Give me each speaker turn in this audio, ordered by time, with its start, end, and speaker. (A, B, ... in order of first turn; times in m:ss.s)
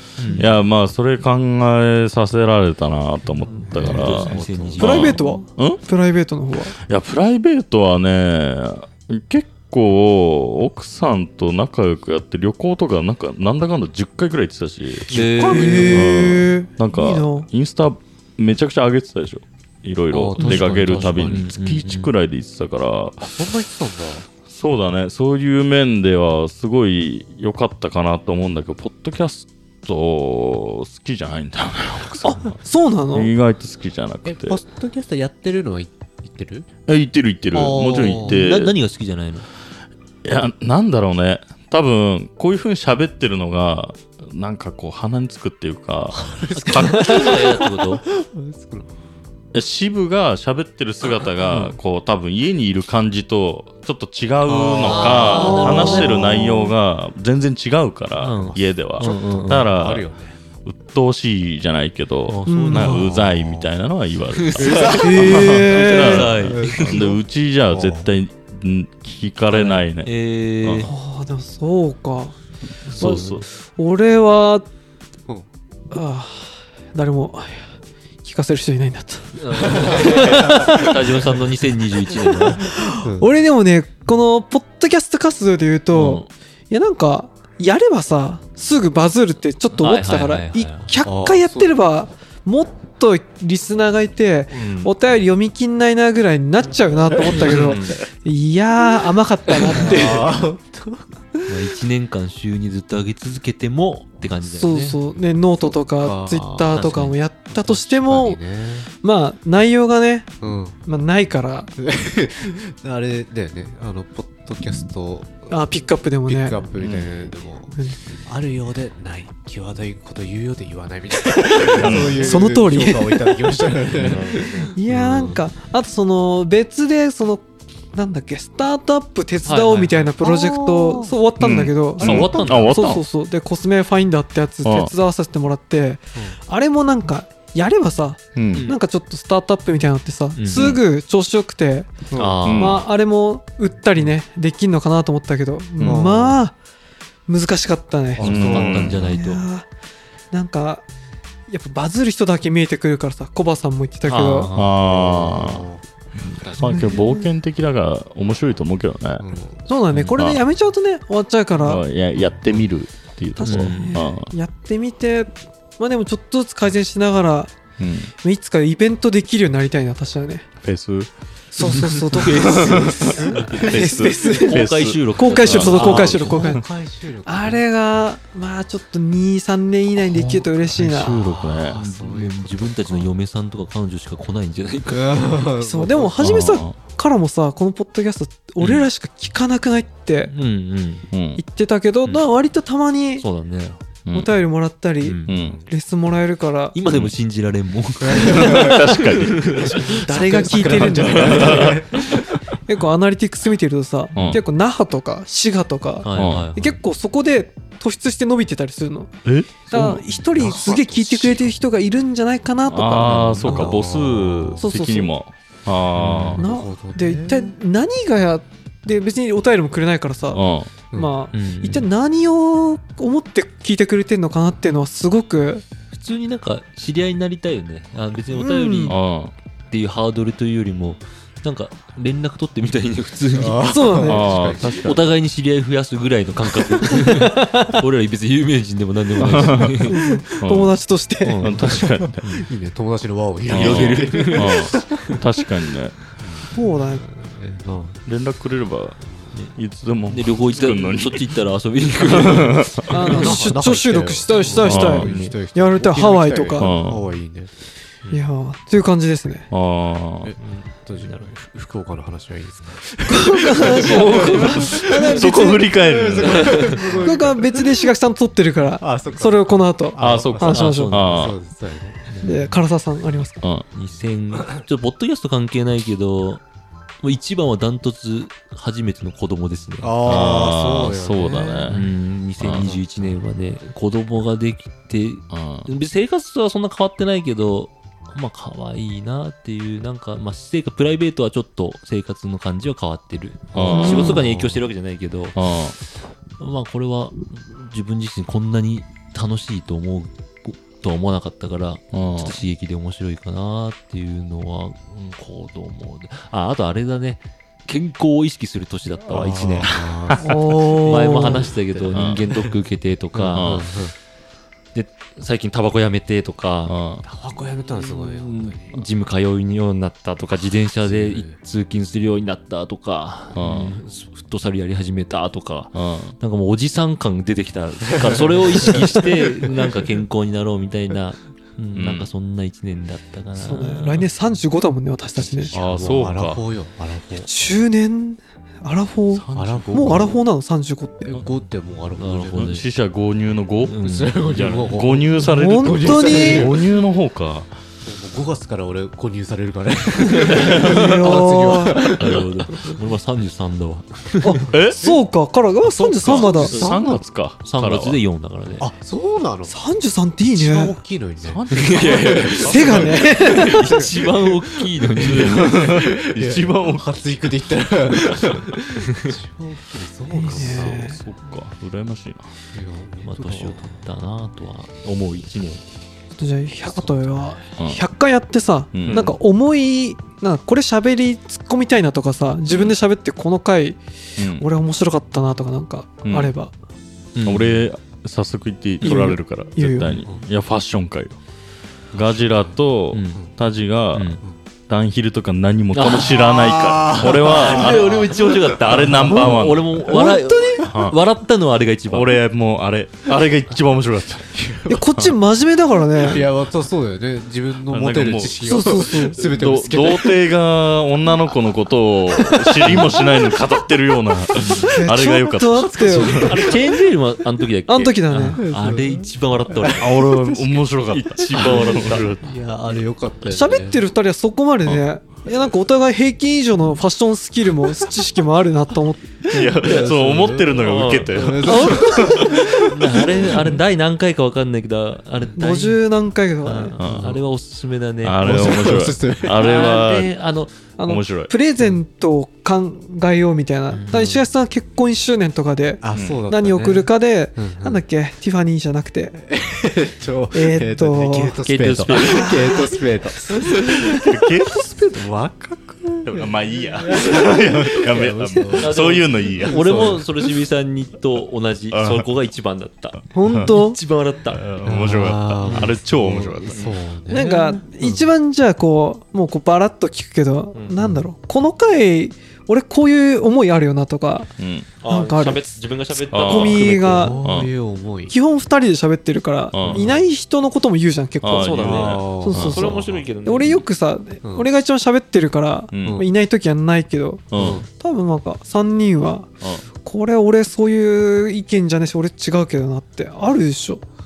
0:00.2-0:00.5 A
0:00.3-0:05.8 B
0:03.5-0:05.2 A
0:03.7-0:05.2 C
0:04.8-0:06.7 D
0:06.9-0:23.4 B
0:15.1-0:16.1 A
0:15.1-0:16.1 C
0:15.4-0:17.5 D
0:20.1-0:21.5 C
0:20.4-0:22.1 A
0:23.2-0:24.3 C
0:24.5-0:32.6 B
0:32.2-0:33.3 D
0:33.1-0:34.6 B
0:34.2-0:36.7 C
0:36.9-0:38.7 B
0:37.5-0:38.4 C
0:38.0-0:39.5 A
0:40.2-0:47.4 B
0:46.1-0:48.9 C
0:46.6-0:48.0 A
0:49.5-1:00.0 B
0:51.5-0:51.8 A
0:54.4-0:56.0 C
0:54.8-0:56.6 A
0:55.3-0:56.3 D
0:58.2-0:59.7 A
0:58.5-1:00.4 C
1:00.6-1:10.1 B
1:02.3-1:03.2 A
1:02.5-1:03.1 D
1:02.9-1:03.7 C
1:04.4-1:07.0 A
1:04.6-1:08.1 C
1:04.9-1:06.3 D
1:09.5-1:10.9 A
1:10.6-1:10.9 B
1:10.8-1:12.4 D
1:12.9-1:13.4 A
1:12.9-1:13.4 B
1:13.0-1:14.7 D
1:15.9-1:17.7 D
1:18.2-1:21.1 D
1:19.4-1:22.6 A
1:19.7-1:21.3 C
1:22.3-1:40.2 D
1:22.5-1:23.3 C
1:25.9-1:26.3 B
1:29.8-1:30.9 A
1:31.0-1:31.8 C
1:34.5-1:34.9 A
1:37.3-1:37.7 C
1:37.3-1:38.0 A
1:39.6-1:41.7 C
1:39.7-1:40.2 A
1:41.5-1:45.0 A
1:44.5-1:48.4 D
1:46.0-1:46.9 C
1:46.7-1:47.1 A
1:47.5-1:48.9 C
1:49.0-1:50.3 D
1:50.4-1:50.8 C
1:50.9-1:51.7 D
1:51.8-1:55.7 C
1:55.5-1:56.6 D
1:56.2-2:04.7 C
1:56.8-1:57.1 B
2:01.7-2:03.4 D
2:01.7-2:02.2 A
2:01.7-2:02.4 B
2:03.9-2:05.4 A
2:04.8-2:22.1 D
2:09.4-2:10.1 A
2:10.2-2:11.2 C
2:11.4-2:13.0 B
2:12.0-2:12.8 C
2:12.0-2:12.9 A
2:14.6-2:14.9 B
2:18.4-2:18.7 B
2:20.4-2:20.8 A
2:22.1-2:22.6 C
2:22.2-2:22.8 A
2:22.4-2:22.8 B
2:22.6-2:26.6 D
2:25.8-2:26.1 B
2:25.8-2:26.4 C
2:27.3-2:28.3 D
2:28.2-2:29.2 C
2:28.2-2:29.4 A
2:28.2-2:29.1 B
2:29.0-2:29.7 D
2:30.3-2:30.8 D
2:31.5-2:34.5 D
2:34.1-2:34.8 A
2:34.5-2:35.6 B
2:34.6-2:35.8 C
2:36.2-2:39.2 B
2:36.4-2:37.0 C
2:36.6-2:37.3 D
2:39.2-2:39.6 C
2:39.7-2:41.8 D
2:40.1-2:40.4 B
2:41.6-2:44.3 B
2:43.4-2:47.5 D
2:43.4-2:44.0 A
2:47.8-2:48.1 B
2:48.2-2:50.5 D
2:50.6-2:51.1 B
2:51.5-2:56.6 D
2:51.6-2:56.5 A
2:52.5-2:56.2 B
2:53.0-2:53.8 C
2:55.5-2:57.6 C
2:57.2-3:01.2 D
3:00.8-3:01.8 B
3:01.0-3:03.1 C
3:01.8-3:05.4 A
3:04.9-3:06.5 C
3:05.6-3:10.3 D
3:06.2-3:06.7 B
3:10.3-3:11.1 A
3:11.1-3:11.4 B
3:11.4-3:13.2 D
3:13.2-3:13.8 A
3:14.1-3:14.3 B
3:14.1-3:16.8 D
3:15.0-3:15.4 A
3:15.3-3:15.6 B
3:15.3-3:15.7 C
3:16.8-3:19.9 A
3:18.0-3:22.4 C
3:18.3-3:19.7 B
3:20.0-3:21.8 D
3:20.7-3:21.8 B
3:21.1-3:21.8 A
3:22.7-3:29.1 D
3:24.2-3:24.4 B
3:26.0-3:26.7 A
3:26.1-3:26.5 B
3:29.2-3:31.4 B
3:29.7-3:33.7 D
3:30.4-3:31.5 C
3:32.7-3:36.4 B
3:33.4-3:34.4 C
3:34.6-3:35.1 D
3:36.0-3:36.4 A
3:36.4-3:37.5 C
3:36.4-3:40.4 D
3:40.3-3:40.7 B
3:40.9-3:45.6 D
3:41.3-3:41.9 A
3:45.9-3:49.0 A
3:48.3-3:48.9 D
3:48.9-3:49.3 B
3:49.7-4:00.0 A
3:53.3-3:55.0 C
3:53.6-3:54.3 D
3:54.0-3:55.0 B
3:57.0-3:57.8 D
3:59.2-4:00.7 B
3:59.9-4:01.5 D
4:01.2-4:02.5 A
4:01.4-4:02.2 B
4:01.5-4:05.2 C
4:03.5-4:06.0 B
4:03.5-4:04.8 A
4:06.2-4:08.0 C
4:06.5-4:07.1 D
4:08.1-4:09.0 B
4:09.6-4:11.3 B
4:10.1-4:13.4 A
4:12.1-4:13.0 B
4:12.9-4:16.7 D
4:13.0-4:17.5 C
4:14.6-4:15.1 B
4:14.9-4:15.4 A
4:16.6-4:17.0 B
4:18.1-4:19.5 D
4:19.5-4:20.3 B
4:20.2-4:27.9 C
4:20.4-4:21.3 A
4:23.1-4:25.7 D
4:23.8-4:26.9 B
4:23.8-4:24.7 A
4:26.2-4:26.9 A
4:26.9-4:31.0 D
4:28.8-4:32.2 C
4:30.0-4:31.4 B
4:30.5-4:31.3 A
4:32.1-4:32.5 A
4:32.2-4:33.4 D
4:33.7-4:36.4 A
4:37.0-4:40.4 A
4:39.8-4:41.8 C
4:40.0-4:41.8 B
4:41.7-4:55.4 A
4:42.4-4:42.8 B
4:42.5-4:43.1 C
4:45.3-4:45.7 B
4:53.5-4:54.3 B
4:53.6-4:54.5 C
4:53.7-4:54.2 D
4:55.4-4:55.8 B
4:56.4-5:09.9 A
5:01.9-5:02.4 B
5:09.1-5:12.5 C
5:10.2-5:11.5 D
5:10.7-5:13.6 A
5:11.9-5:12.2 B
5:13.1-5:13.9 C
5:13.4-5:13.6 B
5:14.7-5:16.8 A
5:16.7-5:17.0 B
5:17.0-5:18.8 C
5:17.7-5:34.1 A
5:20.8-5:21.4 C
5:23.4-5:23.8 B
5:25.7-5:26.1 B
5:27.9-5:29.6 C
5:31.8-5:32.1 B
5:33.4-5:35.5 D
5:35.5-5:36.4 B
5:35.5-5:37.3 C
5:37.3-5:41.1 D
5:39.1-5:40.1 B
5:39.3-5:40.2 C
5:41.1-5:42.5 C
5:42.0-5:42.7 A
5:42.4-5:43.8 B
5:43.7-5:44.8 A
5:43.8-5:46.7 C
5:44.4-5:47.5 B
5:45.2-5:46.5 D
5:47.8-5:52.7 C
5:50.1-5:50.6 A
5:50.4-5:50.9 B
5:50.6-5:51.9 D
5:51.8-5:54.4 A
5:52.0-5:52.3 B
5:54.2-5:56.6 D
5:54.5-5:54.9 B
5:56.0-5:57.0 C
5:56.0-5:58.0 B
5:56.0-5:56.8 A
5:57.4-5:58.7 A
5:58.6-5:59.5 C
5:59.5-6:00.8 D
6:00.3-6:10.9 C
6:01.2-6:03.0 B
6:01.5-6:05.6 A
6:02.4-6:03.7 D
6:05.0-6:06.9 B
6:10.1-6:11.0 D
6:10.3-6:12.2 B
6:12.5-6:13.7 C
6:13.0-6:15.6 A
6:16.2-6:23.8 D
6:16.7-6:17.4 C
6:17.6-6:17.8 B
6:18.7-6:19.1 B
6:18.9-6:19.1 A
6:24.2-6:24.5 B
6:24.3-6:26.5 D
6:26.0-6:26.3 B
6:27.2-6:27.7 A
6:27.2-6:31.2 B
6:28.8-6:30.0 D
6:31.9-6:40.1 B
6:32.0-6:32.5 C
6:32.9-6:33.2 A
6:33.9-6:34.2 A
6:35.7-6:36.3 A
6:35.9-6:39.3 C
6:37.0-6:42.2 A
6:39.9-6:40.7 D
6:40.6-6:41.0 B
6:41.9-6:45.1 B
6:44.4-6:44.8 C
6:44.7-6:46.2 D
6:46.0-6:50.2 C
6:47.7-6:56.5 B
6:48.4-6:49.2 D
6:52.2-6:52.9 D
6:52.6-6:52.9 C
6:54.4-6:54.7 A
6:54.6-6:56.4 D
6:55.8-6:56.3 C
6:56.1-7:02.2 A
6:57.7-6:58.4 D
6:58.4-7:00.0 C
6:59.7-7:02.3 B
7:01.4-7:03.8 C
7:03.3-7:09.5 D
7:09.3-7:12.6 B
7:09.3-7:13.6 C
7:09.6-7:11.3 A
7:11.4-7:12.3 D
7:12.2-7:15.8 A
7:15.4-7:16.8 D
7:16.4-7:20.5 A
7:16.8-7:17.2 B
7:16.9-7:17.2 C
7:18.0-7:20.1 B
7:18.2-7:19.7 C
7:20.8-7:29.2 D
7:20.9-7:21.3 B
7:23.7-7:24.2 A
7:25.8-7:27.8 C
7:25.9-7:26.2 B
7:29.2-7:34.0 C
7:30.3-7:31.4 D
7:31.4-7:32.7 A
7:31.9-7:32.7 D
7:33.9-7:39.8 B
7:36.1-7:40.1 C
7:38.6-7:44.6 A
7:41.7-7:42.1 B
7:43.1-7:43.8 D
7:43.2-7:43.5 B
7:44.4-7:46.6 B
7:44.6-7:48.1 C
7:45.4-7:45.8 A
7:46.5-7:46.8 A
7:47.1-7:54.3 D
7:50.8-7:51.0 C
7:54.4-7:54.7 B
7:54.8-7:57.2 A
7:54.8-7:55.5 D
7:56.1-7:57.5 B
7:56.2-7:57.2 D
7:56.8-7:58.2 C
7:58.1-8:09.3 D
7:59.5-7:59.9 B
7:59.7-8:00.0 C
8:01.2-8:02.7 B
8:01.3-8:03.6 A
8:01.6-8:03.0 C
8:05.7-8:06.0 B
8:05.8-8:06.1 C
8:07.3-8:07.6 B
8:07.3-8:07.7 C
8:09.8-8:13.8 D